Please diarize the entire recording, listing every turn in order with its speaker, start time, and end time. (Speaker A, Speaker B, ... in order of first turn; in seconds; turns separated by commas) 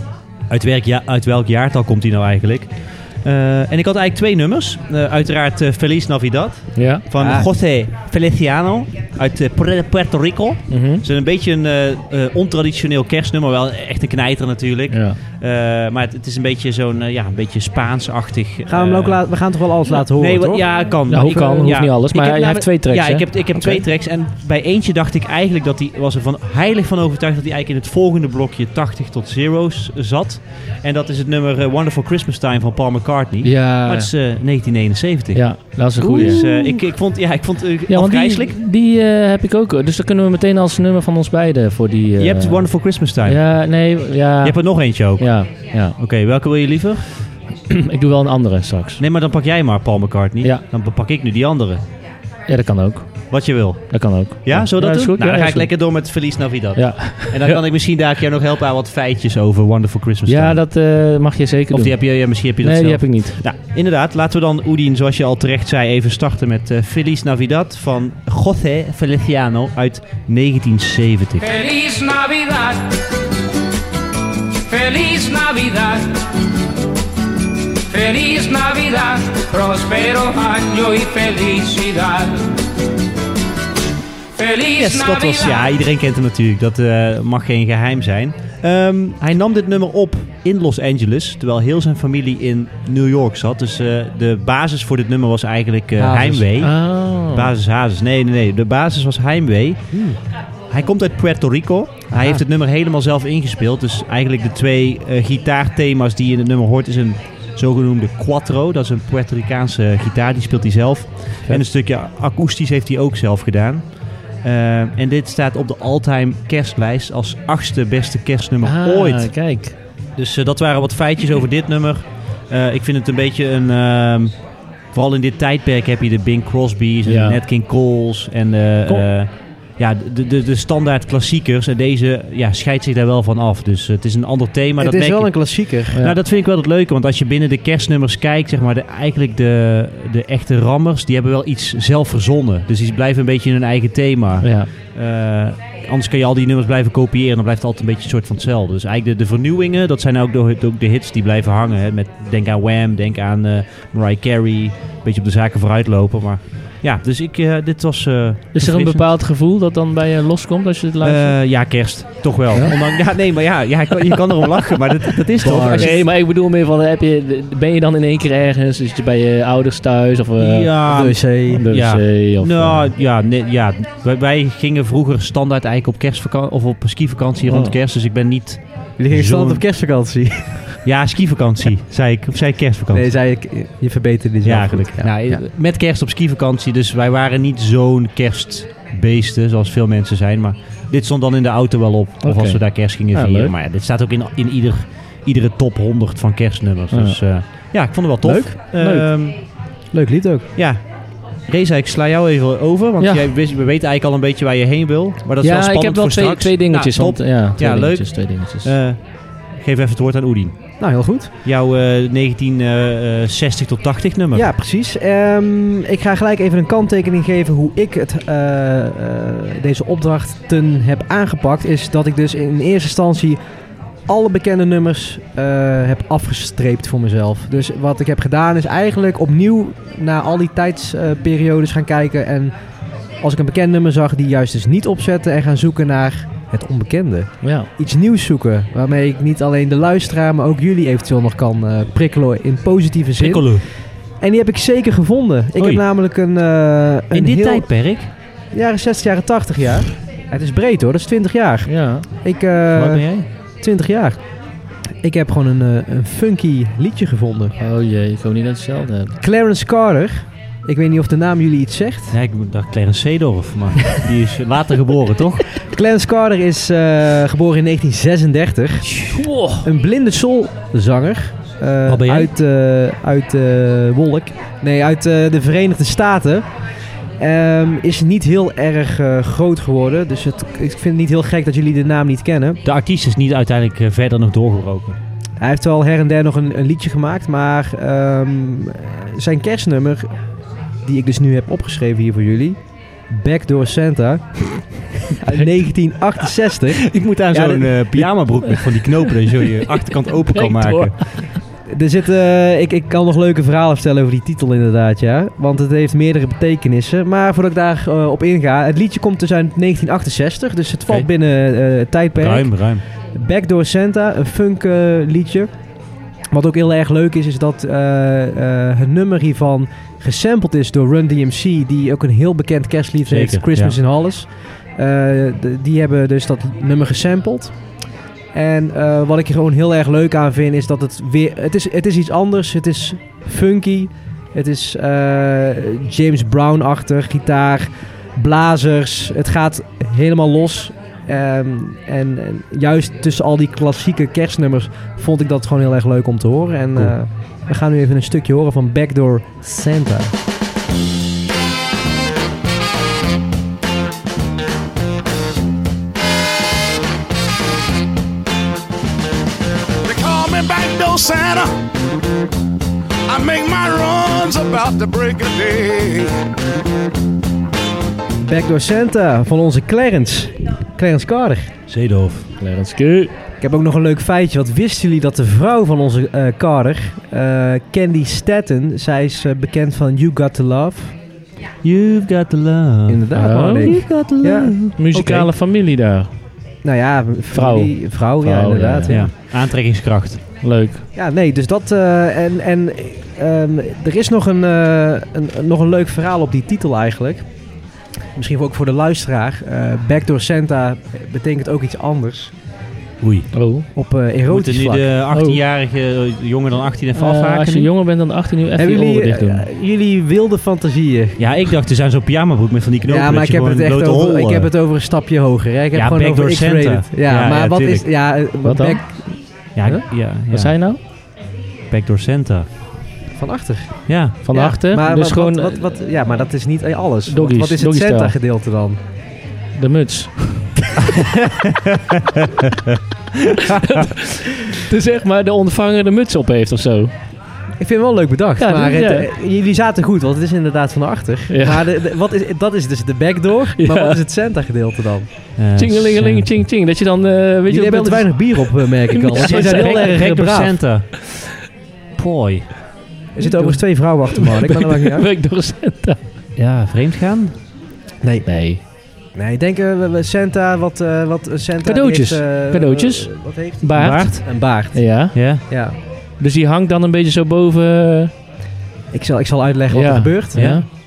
Speaker A: 0.5-38.6, Speaker B: 6.7-7.0, Speaker C: 7.2-7.5, Speaker B: 10.7-11.0, Speaker B: 14.9-15.2, Speaker C: 18.7-20.7, Speaker B: 21.1-23.8, Speaker B: 33.4-34.1, Speaker B: 35.3-36.8, Speaker B: 37.9-46.0, Speaker A: 42.2-43.4, Speaker A: 44.4-47.0, Speaker B: 47.7-49.0, Speaker A: 49.0-51.8, Speaker B: 52.5-57.6, Speaker A: 53.3-60.6, Speaker B: 60.3-63.4, Speaker A: 61.7-71.5, Speaker D: 71.4-72.9, Speaker D: 74.7-76.1, Speaker D: 77.9-82.4, Speaker D: 84.3-85.7, Speaker A: 84.8-100.0, Speaker C: 96.0-96.5, Speaker B: 96.6-97.5, Speaker C: 99.9-100.2, Speaker A: 100.7-119.3, Speaker B: 118.6-119.8, Speaker A: 120.2-124.3, Speaker A: 124.9-159.1, Speaker B: 127.0-127.4, Speaker C: 134.8-136.0, Speaker B: 144.4-144.7, Speaker B: 158.5-161.5, Speaker A: 161.0-166.0, Speaker C: 165.4-165.9, Speaker B: 165.5-172.9, Speaker A: 170.4-179.6, Speaker C: 170.9-171.6, Speaker B: 177.5-177.7, Speaker C: 179.0-180.7, Speaker A: 180.8-183.1, Speaker C: 182.9-185.1, Speaker A: 184.4-199.3, Speaker B: 192.2-193.5, Speaker B: 196.9-197.2, Speaker C: 198.2-198.6, Speaker B: 198.8-199.1, Speaker C: 199.9-200.4, Speaker A: 200.6-200.8, Speaker A: 201.4-209.0, Speaker B: 203.0-203.3, Speaker B: 205.4-208.7, Speaker A: 209.5-210.6, Speaker C: 210.8-211.3, Speaker A: 211.4-214.5, Speaker C: 214.3-223.4, Speaker C: 224.1-232.5, Speaker C: 233.2-247.8, Speaker B: 237.4-237.7, Speaker A: 243.2-243.7, Speaker A: 245.6-245.8, Speaker A: 247.1-248.1, Speaker C: 248.5-253.1, Speaker B: 251.7-252.1, Speaker A: 252.7-253.3, Speaker C: 253.6-254.2, Speaker C: 255.0-257.5, Speaker B: 257.6-259.1, Speaker C: 259.2-262.1, Speaker A: 262.1-265.4, Speaker C: 265.7-268.9, Speaker A: 268.9-269.2, Speaker B: 269.1-269.6, Speaker C: 269.6-276.4, Speaker A: 271.9-272.3, Speaker C: 277.2-282.6, Speaker A: 282.6-285.0, Speaker C: 285.4-290.1, Speaker C: 290.8-292.6, Speaker C: 293.1-294.5, Speaker C: 295.1-298.1, Speaker A: 296.8-301.0, Speaker B: 298.6-301.4, Speaker C: 301.7-315.5, Speaker A: 312.2-312.8, Speaker C: 316.3-327.5, Speaker A: 323.1-323.8, Speaker C: 328.3-350.1, Speaker E: 359.8-361.5, Speaker E: 363.1-366.1, Speaker C: 368.2-371.5, Speaker A: 371.7-372.3, Speaker B: 372.4-373.1, Speaker C: 373.4-380.9, Speaker A: 381.6-383.0, Speaker C: 382.9-384.6, Speaker B: 383.1-383.8, Speaker A: 383.6-385.3, Speaker B: 384.8-386.1, Speaker C: 386.6-389.1, Speaker B: 387.3-389.1, Speaker A: 388.9-390.2, Speaker B: 390.4-390.8, Speaker C: 390.9-397.2, Speaker C: 398.1-402.3, Speaker A: 403.0-403.3, Speaker B: 403.3-403.6, Speaker C: 403.7-404.9, Speaker A: 404.3-407.7, Speaker B: 405.1-405.4, Speaker B: 406.9-409.4, Speaker C: 408.6-411.2, Speaker A: 411.2-414.5, Speaker C: 412.9-419.8, Speaker A: 415.7-417.9, Speaker B: 418.4-418.8, Speaker A: 419.5-420.6, Speaker B: 420.3-420.8, Speaker A: 421.7-422.5, Speaker C: 423.1-428.8, Speaker A: 423.9-424.2, Speaker B: 424.2-425.7, Speaker B: 427.1-428.1, Speaker B: 429.6-430.4, Speaker A: 431.0-433.8, Speaker B: 433.6-436.9, Speaker C: 437.6-445.1, Speaker B: 438.4-439.1, Speaker B: 441.3-441.8, Speaker B: 443.6-444.0, Speaker A: 445.4-446.3, Speaker B: 445.6-450.0, Speaker C: 447.5-450.6, Speaker A: 449.1-451.0, Speaker A: 451.9-452.5, Speaker C: 453.1-455.1, Speaker B: 453.2-456.0, Speaker A: 456.4-457.3, Speaker C: 458.0-458.3, Speaker B: 458.2-458.6, Speaker C: 459.1-465.8, Speaker B: 461.6-465.4, Speaker A: 463.7-464.2, Speaker A: 465.1-465.4, Speaker B: 466.2-468.1, Speaker C: 468.9-470.7, Speaker B: 469.7-470.6, Speaker A: 470.3-470.6